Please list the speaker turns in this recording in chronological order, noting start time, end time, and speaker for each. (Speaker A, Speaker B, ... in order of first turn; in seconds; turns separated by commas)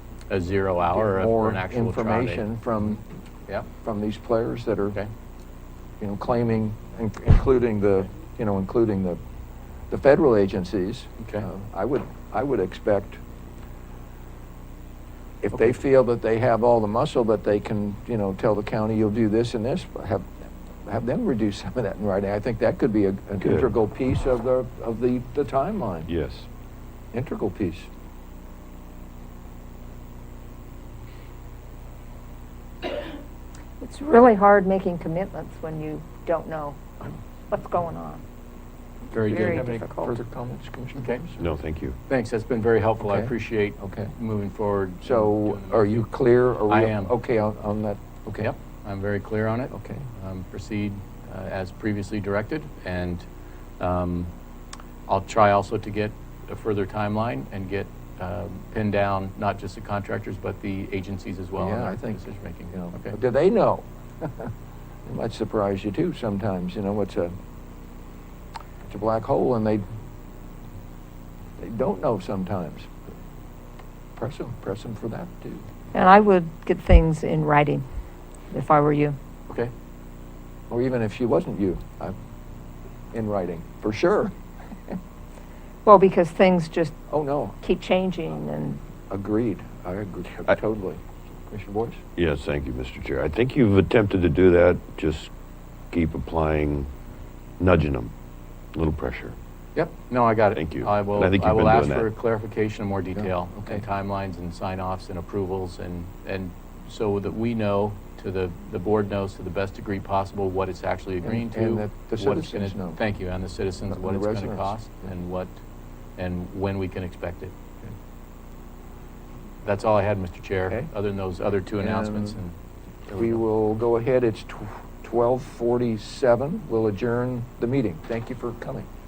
Speaker A: 0.3-2.4, Speaker B: 0.9-3.0, Speaker B: 3.8-5.0, Speaker B: 6.0-9.2, Speaker B: 9.9-13.2, Speaker A: 11.2-11.5, Speaker B: 15.4-26.1, Speaker C: 23.4-23.7, Speaker C: 26.1-26.5, Speaker B: 27.1-27.9, Speaker D: 33.8-36.8, Speaker D: 37.5-38.2, Speaker A: 39.1-39.6, Speaker D: 39.1-40.1, Speaker B: 39.2-41.4, Speaker A: 41.0-41.2, Speaker C: 41.4-42.0, Speaker A: 42.1-46.1, Speaker B: 43.0-44.1, Speaker B: 45.0-48.5, Speaker A: 46.7-47.1, Speaker A: 48.4-53.3, Speaker B: 49.7-50.1, Speaker A: 53.8-54.3, Speaker A: 55.1-63.1, Speaker B: 61.6-62.2, Speaker B: 62.7-64.5, Speaker B: 65.1-67.3, Speaker B: 68.9-69.8, Speaker B: 71.6-72.9, Speaker B: 74.2-75.7, Speaker D: 75.9-77.8, Speaker D: 78.5-79.2, Speaker B: 80.7-82.2, Speaker B: 83.1-84.3, Speaker D: 85.8-87.0, Speaker B: 87.1-87.6, Speaker D: 87.6-88.8, Speaker B: 89.1-92.0, Speaker C: 92.2-95.3, Speaker C: 95.9-96.9, Speaker C: 97.6-98.1, Speaker C: 98.7-99.4, Speaker A: 99.8-115.6, Speaker C: 100.5-102.1, Speaker B: 103.2-103.9, Speaker B: 111.2-113.0, Speaker B: 113.9-114.8, Speaker A: 116.2-117.5, Speaker A: 119.6-122.5, Speaker B: 121.8-122.4, Speaker A: 123.1-123.4, Speaker B: 123.1-128.9